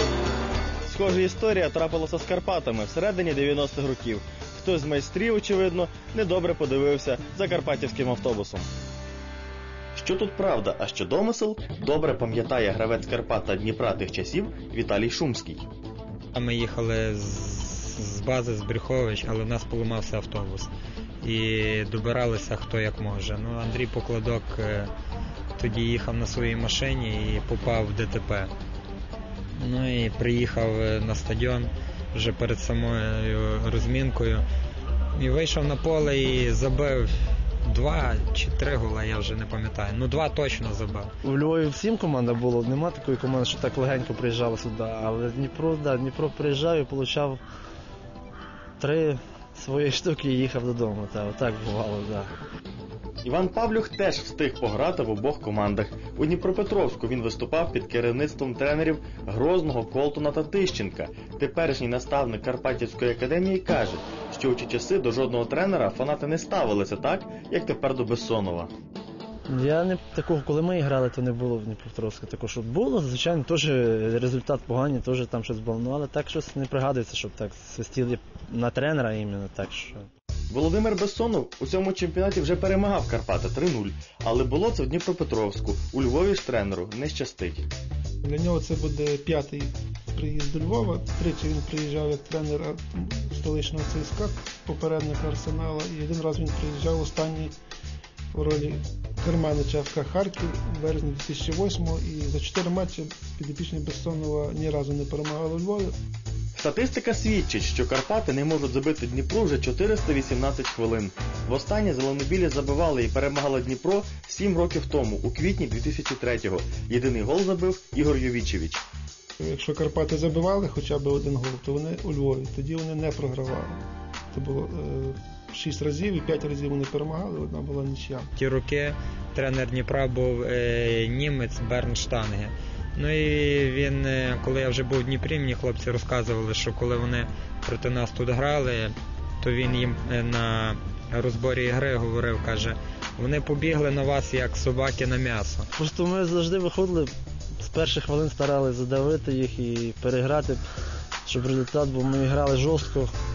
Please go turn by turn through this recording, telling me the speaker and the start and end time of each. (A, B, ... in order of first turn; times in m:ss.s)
0:00.9-0:08.7 A
0:10.0-0:15.7 A
0:16.4-0:20.7 B
0:21.2-0:24.9 B
0:25.6-0:28.5 B
0:29.6-0:34.4 B
0:35.2-0:37.1 B
0:37.6-0:41.1 B
0:41.2-0:47.4 C
0:48.8-0:52.3 C
0:53.2-1:08.7 A
1:09.5-1:20.1 C
1:20.5-1:27.7 A
1:28.2-1:37.5 D
1:38.3-1:45.9 D
1:46.6-1:58.8 A
1:59.4-2:03.8 D
2:04.3-2:08.3 D
2:08.4-2:25.7 B
2:25.7-2:30.6 C
2:31.2-2:33.1 C